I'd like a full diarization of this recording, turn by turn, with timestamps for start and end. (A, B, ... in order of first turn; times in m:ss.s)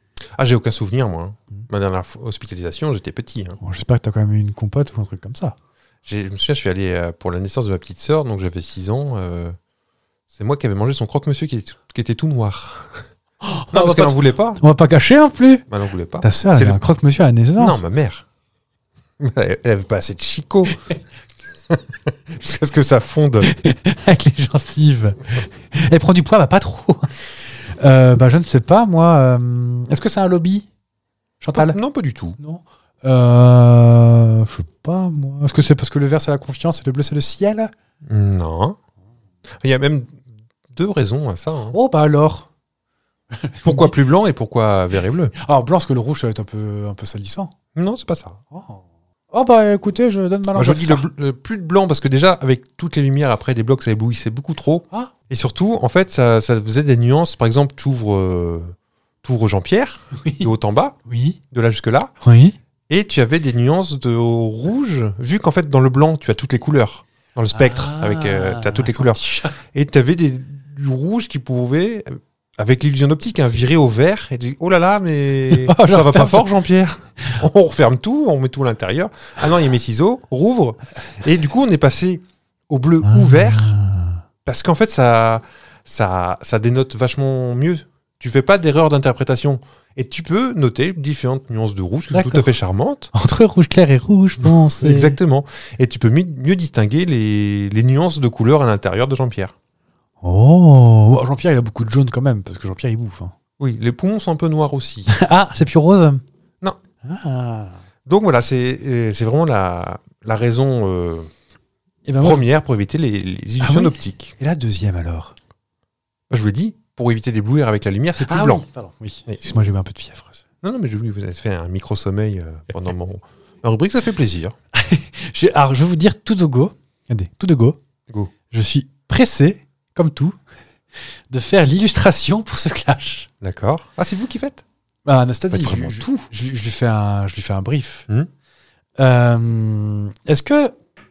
0:00.4-0:03.6 A
0:03.6-0:05.6 B
0:06.0-0:09.6 A
0:10.3-0:13.1 A
0:13.4-0:15.6 B
0:13.7-0:14.6 A
0:15.7-0:16.8 A
0:16.2-0:17.8 B
0:17.6-0:18.2 A
0:19.2-0:20.8 A
0:21.7-0:23.5 A
0:23.4-0:30.7 B
0:31.4-0:31.8 B
0:31.5-0:32.4 A
0:32.4-0:37.7 B
0:38.1-0:38.8 A
0:39.6-0:41.8 A
0:41.7-0:42.5 B
0:43.3-0:43.9 B
0:43.6-0:45.3 A
0:45.4-0:47.5 B
0:47.8-0:48.4 A
0:48.5-0:51.1 B
0:50.6-1:01.0 A
1:00.1-1:00.5 B
1:01.1-1:01.4 B
1:01.5-1:02.1 A
1:02.2-1:02.6 B
1:02.9-1:23.8 A
1:07.5-1:09.6 B
1:15.5-1:16.5 B
1:23.0-1:24.2 B
1:24.4-1:33.1 A
1:32.1-1:32.5 B
1:33.1-1:35.2 B
1:34.4-1:39.5 A
1:40.2-1:43.3 B
1:43.6-1:45.1 A
1:45.1-1:46.2 B
1:47.0-1:47.8 B
1:48.1-1:51.3 A
1:52.1-1:52.4 B
1:52.2-1:54.4 A
1:53.6-1:55.4 B
1:56.3-1:58.6 A
1:58.2-2:00.4 B
2:00.6-2:04.6 A
2:04.7-2:07.8 B
2:08.5-2:10.4 B
2:11.3-2:13.3 B
2:13.4-2:14.6 A
2:15.1-2:18.1 B
2:15.5-2:16.1 A
2:19.0-2:20.8 B